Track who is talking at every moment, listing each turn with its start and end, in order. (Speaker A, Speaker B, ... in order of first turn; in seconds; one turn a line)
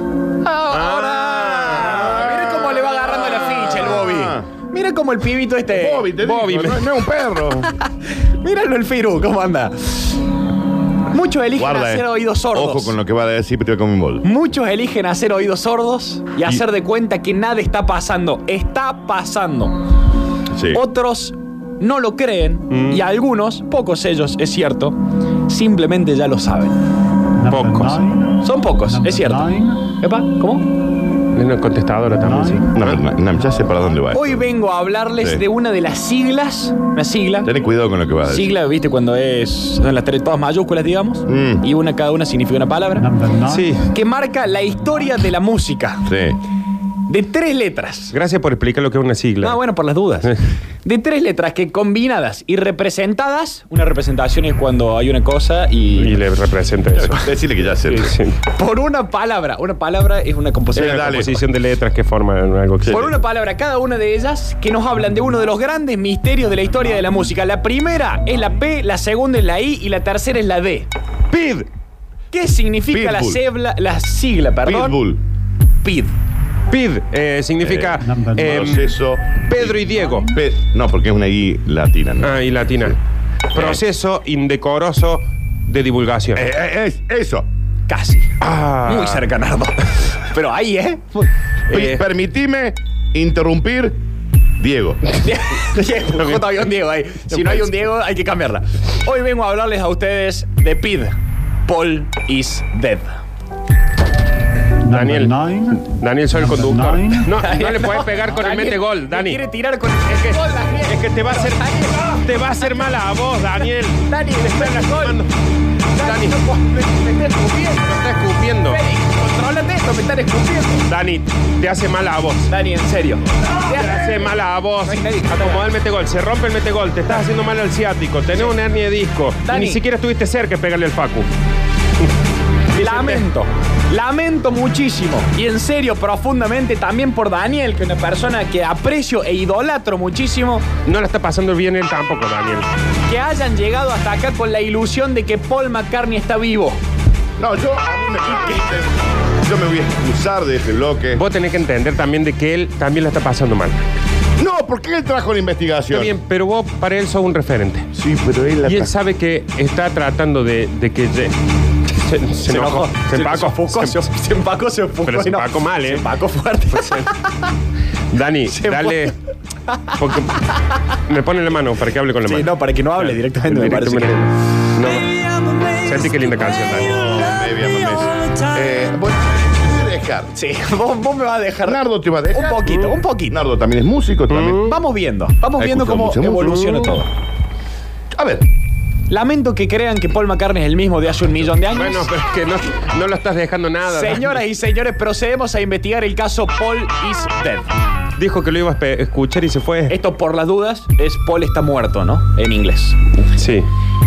Speaker A: 0.4-6.1
Speaker B: 0.7-2.1
Speaker C: 1.8-4.5
Speaker C: 5.7-7.7
Speaker B: 6.2-6.9
Speaker A: 8.1-10.2
Speaker A: 11.1-13.0
Speaker C: 11.6-14.2
Speaker A: 14.2-19.8
Speaker C: 20.5-20.8
Speaker A: 20.7-25.0
Speaker B: 22.7-23.0
Speaker A: 25.5-26.8
Speaker B: 27.4-28.1
Speaker A: 28.4-30.6
Speaker B: 31.3-33.0
Speaker C: 32.8-34.4
Speaker A: 34.1-37.5
Speaker C: 37.4-38.5
Speaker A: 38.3-43.2
Speaker C: 41.3-41.6
Speaker B: 43.4-43.9
Speaker A: 43.9-46.1
Speaker C: 46.0-46.4
Speaker A: 47.1-48.1
Speaker B: 48.1-49.6
Speaker A: 49.4-56.2
Speaker B: 56.0-57.3
Speaker C: 56.9-58.2
Speaker B: 57.9-58.4
Speaker A: 58.5-61.3
Speaker C: 60.8-61.3
Speaker B: 60.8-63.1
Speaker C: 62.8-63.1
Speaker A: 62.9-70.9
Speaker B: 71.3-71.6
Speaker A: 72.3-75.0
Speaker C: 72.9-73.4
Speaker C: 74.7-75.2
Speaker A: 75.8-76.1
Speaker B: 76.7-78.9
Speaker C: 77.6-83.0
Speaker B: 79.5-80.3
Speaker B: 82.2-83.0
Speaker B: 83.5-86.5
Speaker C: 83.5-83.8
Speaker C: 86.3-87.5
Speaker A: 87.9-91.3
Speaker B: 88.4-89.3
Speaker B: 91.7-92.0
Speaker C: 91.7-94.0
Speaker C: 94.6-95.0
Speaker A: 95.2-103.2
Speaker B: 96.2-96.6
Speaker B: 104.8-109.4
Speaker A: 107.3-112.8
Speaker B: 110.1-115.3
Speaker A: 114.1-115.2
Speaker A: 116.0-118.0
Speaker B: 116.0-116.4
Speaker B: 117.8-118.8
Speaker A: 118.7-120.9
Speaker B: 120.9-122.5
Speaker A: 122.5-124.3
Speaker B: 123.6-131.3
Speaker A: 124.8-125.7
Speaker A: 129.4-129.8
Speaker A: 132.8-140.7
Speaker B: 132.8-133.3
Speaker B: 140.9-142.7
Speaker A: 143.1-146.8
Speaker C: 147.4-151.2
Speaker B: 151.2-153.8
Speaker C: 154.4-156.1
Speaker B: 155.9-157.9
Speaker C: 157.9-158.9
Speaker B: 158.6-161.4
Speaker B: 161.9-164.0
Speaker A: 162.4-167.3
Speaker B: 165.1-166.0
Speaker B: 166.7-167.1
Speaker B: 168.1-169.2
Speaker A: 168.5-169.1
Speaker A: 169.7-170.4
Speaker B: 170.0-170.4
Speaker B: 170.9-175.2
Speaker A: 172.2-174.3
Speaker B: 175.7-177.1
Speaker C: 176.9-180.3
Speaker A: 180.3-183.4
Speaker C: 181.7-184.7
Speaker B: 184.3-184.8
Speaker A: 184.6-187.1
Speaker C: 185.6-186.6
Speaker B: 186.4-186.9
Speaker C: 188.1-188.4
Speaker A: 189.1-192.1
Speaker B: 191.7-194.4
Speaker A: 193.9-197.7
Speaker B: 198.2-199.9
Speaker A: 199.9-203.0
Speaker B: 203.3-203.7